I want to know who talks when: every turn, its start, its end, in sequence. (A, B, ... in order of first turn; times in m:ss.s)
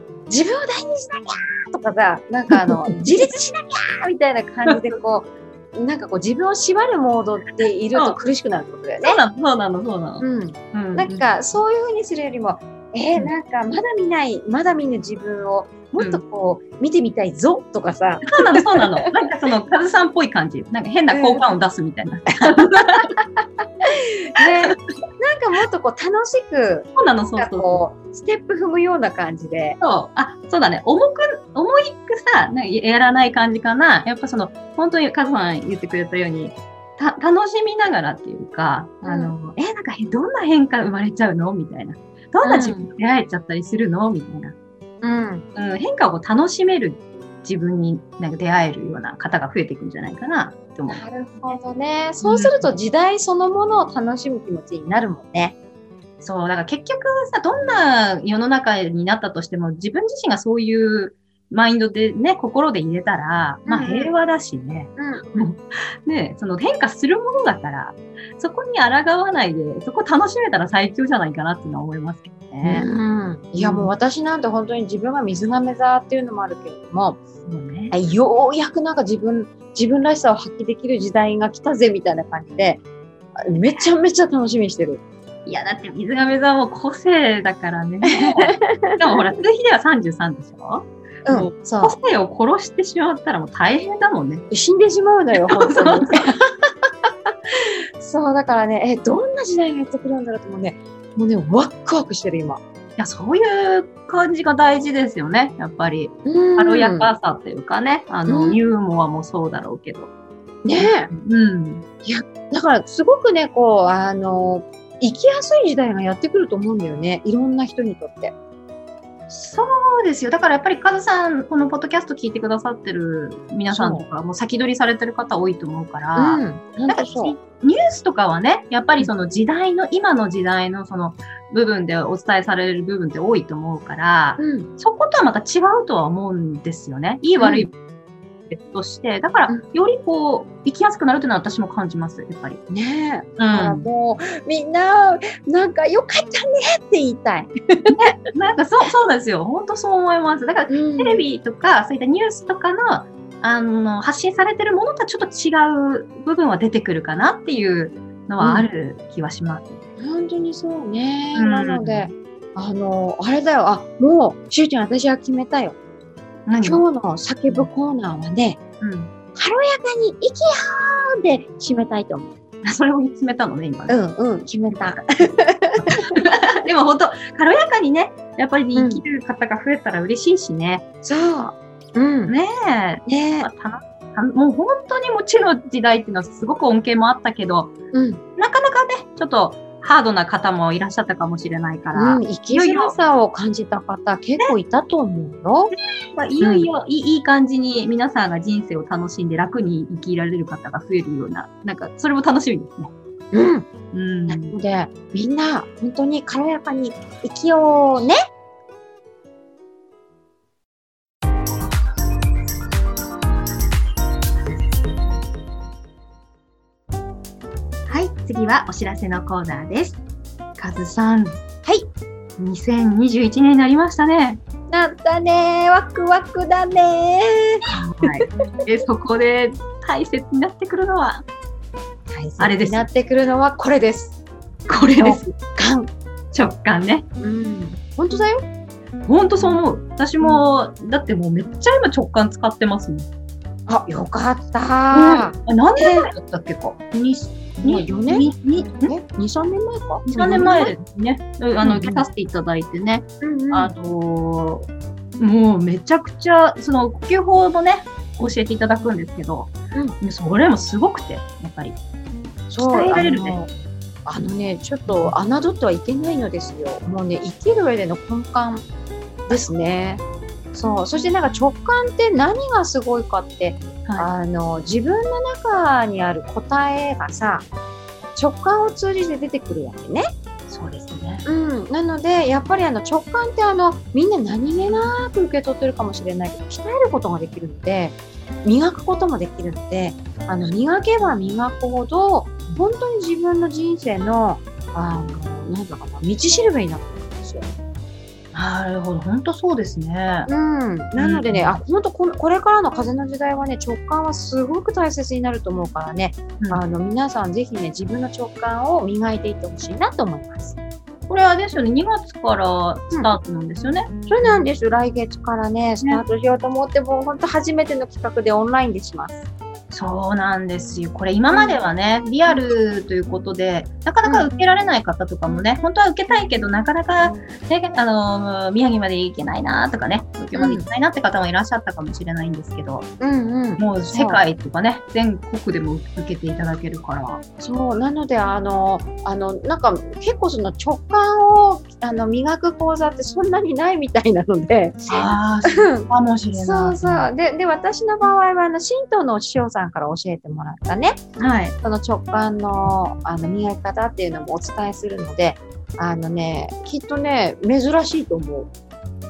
0:00.3-0:09.2 A
0:09.0-0:11.3 B
0:10.2-0:19.1 A
0:18.3-0:23.1 B
0:21.1-0:21.4 A
0:22.6-0:23.2 A
0:23.8-0:29.8 A
0:24.4-0:24.7 B
0:26.9-0:27.8 B
0:29.8-0:44.6 B
0:39.0-0:39.3 A
0:42.4-0:42.9 A
0:45.0-0:45.4 A
0:45.6-0:51.6 B
0:50.9-0:55.6 A
0:52.2-0:52.7 B
0:56.2-1:12.9 B
1:03.6-1:04.1 A
1:05.0-1:05.5 A
1:12.6-1:17.2 A
1:13.6-1:13.9 B
1:17.4-1:17.9 B
1:17.9-1:22.8 A
1:23.4-1:25.0 A
1:25.4-1:34.4 B
1:28.1-1:29.0 A
1:31.2-1:32.0 A
1:34.5-1:36.4 A
1:35.5-1:36.3 B
1:37.6-1:42.6 A
1:43.0-1:50.1 B
1:46.2-1:47.1 A
1:48.3-1:48.6 A
1:50.6-1:51.1 A
1:50.8-1:51.8 B
1:52.0-1:58.3 A
1:59.3-2:17.8 B
2:03.7-2:04.0 A
2:06.2-2:07.4 A
2:14.4-2:14.7 A
2:17.4-2:17.7 A
2:18.5-2:22.6 B
2:22.7-2:28.0 A
2:23.4-2:23.8 B
2:28.0-2:39.8 B
2:30.7-2:31.2 A
2:38.4-2:38.7 A
2:40.0-2:45.8 A
2:41.3-2:42.1 B
2:46.5-2:46.8 B
2:46.6-2:48.6 A
2:48.8-2:49.1 B
2:49.3-2:52.3 A
2:52.6-2:54.0 B
2:53.9-2:56.1 A
2:55.8-3:00.8 B
2:58.7-2:59.0 A
3:01.0-3:02.3 A
3:02.3-3:07.7 B
3:03.1-3:03.5 A
3:07.9-3:08.2 A
3:08.4-3:12.9 B
3:11.9-3:15.7 A
3:15.7-3:22.9 B
3:16.4-3:16.7 A
3:23.3-3:23.7 A
3:23.9-3:24.5 B
3:24.3-3:28.2 A
3:37.9-3:40.0 B
3:40.6-3:41.4 B
3:42.4-3:44.4 B
3:44.7-3:48.2 A
3:47.7-3:51.2 B
3:52.1-3:54.2 A
3:52.4-3:52.9 B
3:54.7-3:55.3 B
3:54.7-3:55.9 A
3:56.3-3:57.0 B
3:57.2-3:58.4 A
3:59.1-4:03.1 B
4:03.7-4:06.1 A
4:04.9-4:08.9 B
4:07.6-4:08.3 A
4:08.8-4:10.7 A
4:10.1-4:14.7 B
4:11.6-4:12.0 A
4:13.2-4:13.7 A
4:15.2-4:21.8 B
4:22.5-4:23.5 A
4:22.6-4:23.4 B
4:24.1-4:28.7 A
4:24.9-4:25.1 B
4:29.3-4:30.0 A
4:30.5-4:37.5 A
4:38.2-4:40.1 A
4:40.5-4:41.2 B
4:41.2-4:57.5 A
4:58.3-5:00.3 B
5:00.3-5:10.6 A
5:01.0-5:01.6 B
5:11.1-5:14.4 B
5:14.1-5:19.2 A
5:19.7-5:32.9 B
5:21.3-5:21.6 A
5:24.0-5:24.3 A
5:27.0-5:27.3 A
5:30.3-5:30.7 A
5:33.0-5:34.2 A
5:33.6-5:37.2 B
5:37.4-5:51.0 A
5:44.9-5:47.1 B
5:51.2-5:51.6 B
5:51.6-5:58.5 A